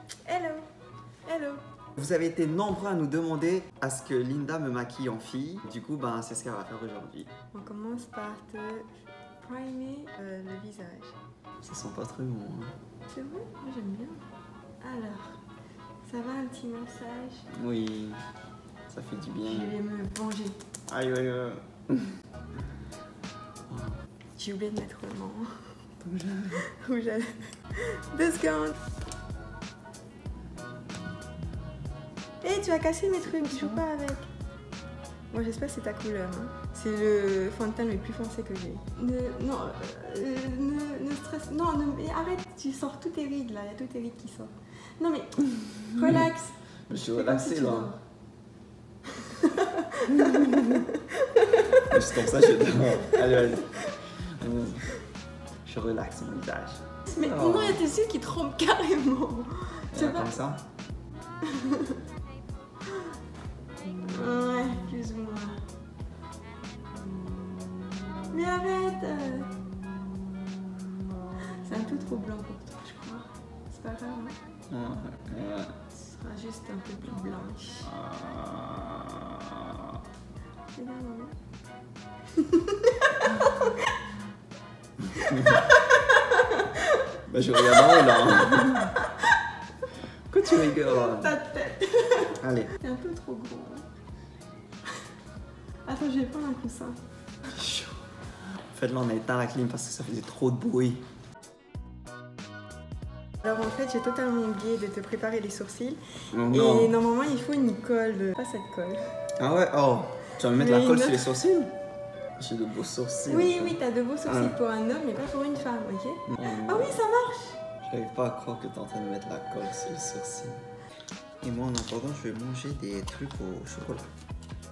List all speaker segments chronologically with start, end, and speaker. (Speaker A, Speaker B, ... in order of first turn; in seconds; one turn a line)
Speaker A: 0.2-0.7
Speaker A: 1.2-1.6
Speaker B: 2.0-7.3
Speaker A: 7.5-11.2
Speaker B: 11.6-12.7
Speaker A: 13.1-14.2
Speaker A: 14.8-15.4
Speaker A: 16.0-17.5
Speaker B: 17.5-18.2
Speaker B: 18.9-19.7
Speaker A: 19.4-20.6
Speaker B: 20.9-22.1
Speaker B: 23.7-24.0
Speaker A: 24.4-25.7
Speaker B: 26.0-26.6
Speaker A: 26.5-28.8
Speaker A: 32.4-34.3
Speaker B: 33.2-33.8
Speaker A: 35.3-46.5
Speaker B: 45.5-46.2
Speaker B: 46.9-47.9
Speaker A: 47.1-48.0
Speaker A: 49.2-52.5
Speaker B: 50.1-50.8
Speaker B: 51.8-54.9
Speaker A: 53.1-53.4
Speaker B: 55.6-57.8
Speaker A: 57.1-60.3
Speaker B: 59.9-60.6
Speaker A: 61.4-62.0
Speaker A: 64.0-65.7
Speaker A: 68.3-69.5
Speaker A: 71.4-74.3
Speaker B: 74.7-75.8
Speaker A: 75.9-77.9
Speaker B: 77.8-79.9
Speaker A: 80.7-81.3
Speaker A: 82.3-83.9
Speaker B: 85.2-85.6
Speaker A: 85.2-87.0
Speaker B: 87.3-89.0
Speaker A: 87.5-89.5
Speaker B: 90.3-91.4
Speaker A: 90.5-93.8
Speaker B: 92.4-92.7
Speaker A: 95.8-97.0
Speaker B: 97.6-97.9
Speaker B: 98.7-101.0
Speaker A: 103.4-109.1
Speaker B: 106.3-106.9
Speaker B: 109.4-111.7
Speaker A: 110.5-111.4
Speaker B: 112.4-114.5
Speaker A: 113.3-117.6
Speaker B: 116.3-116.9
Speaker B: 117.8-120.6
Speaker B: 121.4-124.1